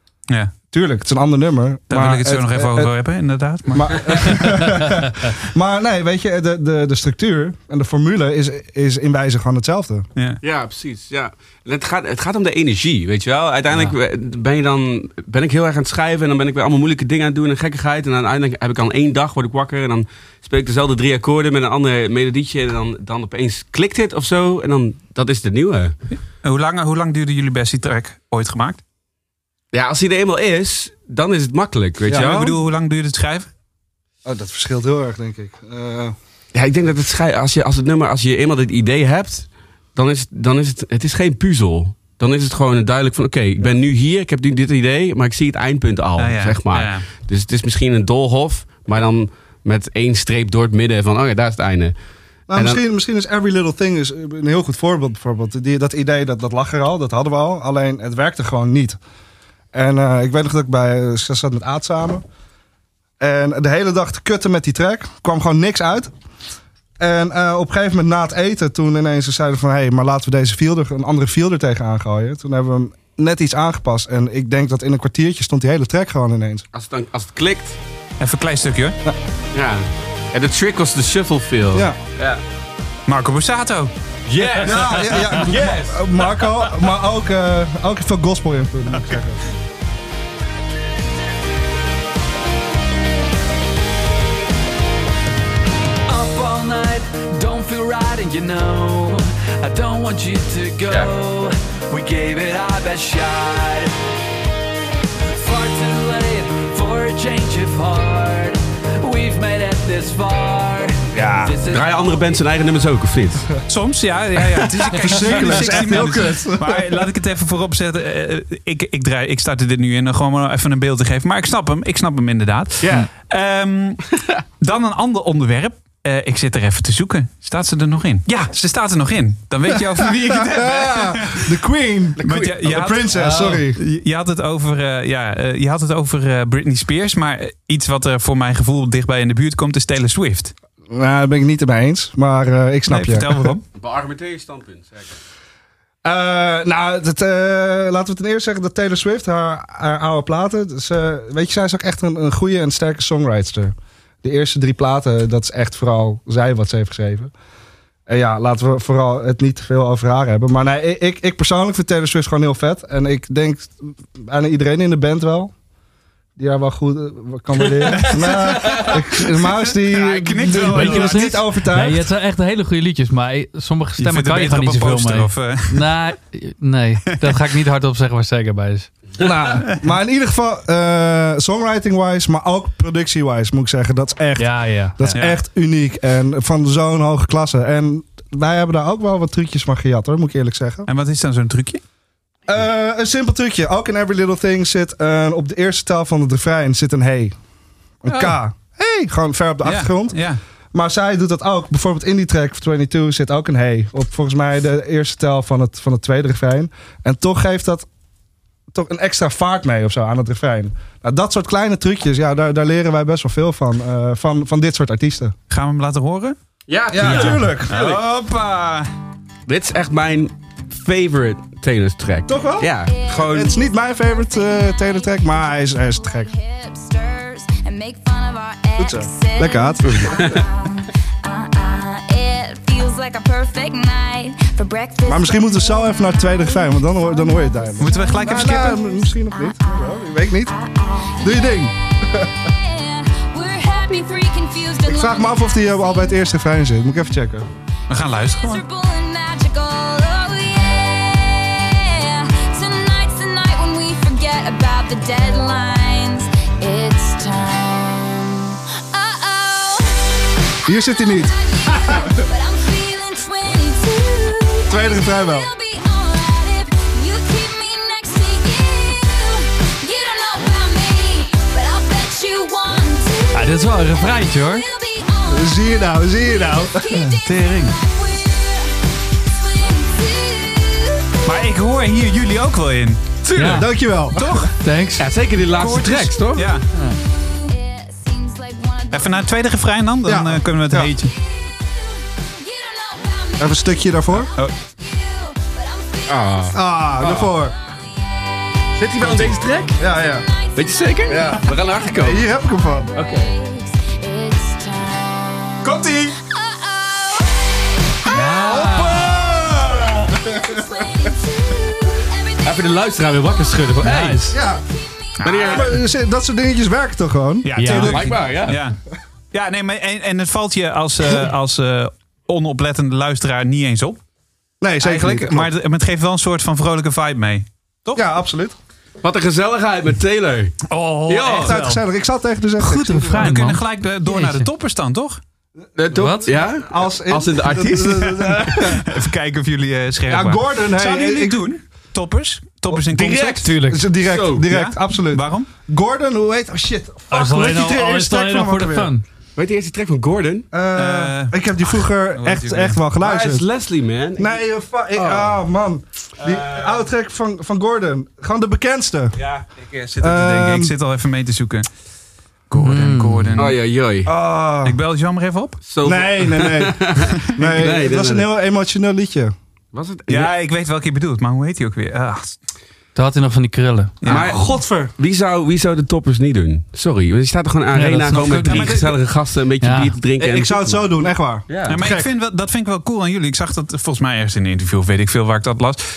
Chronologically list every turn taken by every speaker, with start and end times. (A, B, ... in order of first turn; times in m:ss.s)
0:00.3-0:00.5 A
0:00.7-0:02.9 B
0:01.9-0:04.7 A
0:03.7-0:10.1 B
0:10.4-0:25.9 C
0:26.4-0:28.8 A
0:29.7-0:32.5 C
0:32.1-0:32.6 B
0:32.1-0:33.5 A
0:34.2-0:36.1 B
0:36.5-0:51.9 C
0:46.2-0:47.1 A
0:52.5-0:59.0 B
0:52.5-0:52.8 C
0:59.7-1:02.2 B
1:03.2-1:06.1 B
1:07.0-1:16.6 B
1:16.7-1:17.8 C
1:18.2-1:19.0 A
1:19.5-1:22.4 C
1:23.1-1:23.9 A
1:24.3-1:26.5 C
1:24.6-1:29.4 B
1:36.1-1:43.9 D
1:45.3-1:51.8 D
1:51.1-1:51.5 B
1:51.6-1:53.5 C
1:53.7-2:04.0 A
1:54.8-1:57.0 B
2:02.8-2:03.1 C
2:04.6-2:11.5 A
2:09.9-2:13.8 B
2:12.2-2:12.8 C
2:12.2-2:20.5 A
2:13.2-2:13.6 E
2:20.9-2:23.5 B
2:22.9-2:23.6 A
2:23.8-2:25.2 C
2:26.0-2:37.3 B
2:38.1-2:45.5 B
2:46.4-2:52.0 B
2:47.8-2:49.0 C
2:48.0-2:49.0 A
2:49.7-2:51.4 A
2:50.5-2:58.9 E
2:54.0-2:55.9 A
2:59.2-3:10.9 B
3:04.4-3:05.1 E
3:05.1-3:05.4 A
3:10.9-3:11.8 A
3:12.5-3:17.4 B
3:18.0-3:20.2 B
3:18.1-3:18.4 A
3:19.6-3:20.4 A
3:20.7-3:27.9 B
3:28.7-3:35.3 B
3:35.5-3:36.4 A
3:36.7-3:38.0 C
3:36.9-3:37.8 B
3:37.0-3:38.9 A
3:39.5-3:43.5 C
3:42.3-3:46.3 B
3:42.8-4:06.4 F
3:48.8-3:50.4 B
3:49.8-3:50.4 C
3:55.0-4:00.5 B
3:57.8-3:58.8 A
4:01.2-4:02.3 B
4:04.8-4:07.5 B
4:07.9-4:08.6 A
4:08.1-4:41.1 F
4:20.6-4:22.2 B
4:24.7-4:25.5 B
4:33.3-4:34.6 E
4:35.3-4:37.1 B
4:37.0-4:37.7 E
4:41.2-4:43.0 A
4:43.2-4:43.7 C
4:43.3-4:43.7 E
4:43.4-4:44.5 B
4:44.1-4:44.5 A
4:44.6-4:45.1 E
4:45.0-4:46.5 C
4:45.5-4:46.6 A
4:47.0-4:49.4 F
4:48.9-4:51.1 A
4:50.0-4:50.9 B
4:51.2-5:05.6 F
4:53.4-4:54.3 B
4:56.1-4:57.3 C
4:56.5-4:57.5 B
4:58.8-4:59.8 C
4:59.8-5:00.2 B
5:00.6-5:02.2 C
5:01.1-5:01.5 B
5:02.0-5:02.9 B
5:03.0-5:03.3 C
5:06.1-5:13.7 F
5:08.1-5:09.1 E
5:08.4-5:08.8 A
5:08.4-5:10.8 B
5:12.4-5:14.2 C
5:13.8-5:14.4 E
5:14.3-5:14.6 B
5:14.3-5:15.5 F
5:15.2-5:15.6 A
5:15.2-5:15.7 C
5:15.4-5:17.6 B
5:17.4-5:18.8 A
5:17.6-5:18.1 E
5:17.7-5:18.6 C
5:19.3-5:24.0 A
5:24.6-5:25.5 B
5:24.8-5:28.0 A
5:27.9-5:28.5 B
5:29.0-5:31.6 C
5:30.7-5:31.7 A
5:30.7-5:31.8 E
5:31.3-5:33.5 B
5:32.6-5:34.5 E
5:33.1-5:35.2 A
5:35.8-5:38.2 C
5:35.9-5:36.3 E
5:36.2-5:39.0 B
5:38.1-5:43.6 A
5:40.1-5:41.4 B
5:43.0-5:43.4 C
5:43.3-5:43.8 E
5:43.7-5:48.9 B
5:44.0-5:44.5 C
5:44.5-5:45.5 A
5:47.1-5:49.0 E
5:49.4-5:50.5 C
5:50.5-5:53.4 B
5:50.8-5:51.4 A
5:52.1-5:52.8 A
5:53.0-5:54.4 C
5:54.2-5:59.2 B
5:54.9-5:55.4 C
5:56.2-5:56.7 A
5:59.2-6:01.7 A
6:00.0-6:00.7 B
6:02.5-6:03.6 A
6:02.5-6:03.4 E
6:03.4-6:04.1 C
6:04.0-6:04.8 B
6:04.6-6:05.6 A
6:05.6-6:08.3 C
6:05.8-6:09.3 B
6:09.7-6:10.3 C
6:10.1-6:12.4 A
6:12.9-6:14.0 E
6:14.0-6:14.4 A
6:14.0-6:20.9 C
6:14.1-6:14.9 B
6:17.7-6:18.8 E
6:18.4-6:18.9 A
6:19.6-6:19.9 E
6:20.2-6:22.1 B
6:21.5-6:21.8 C
6:21.7-6:25.8 A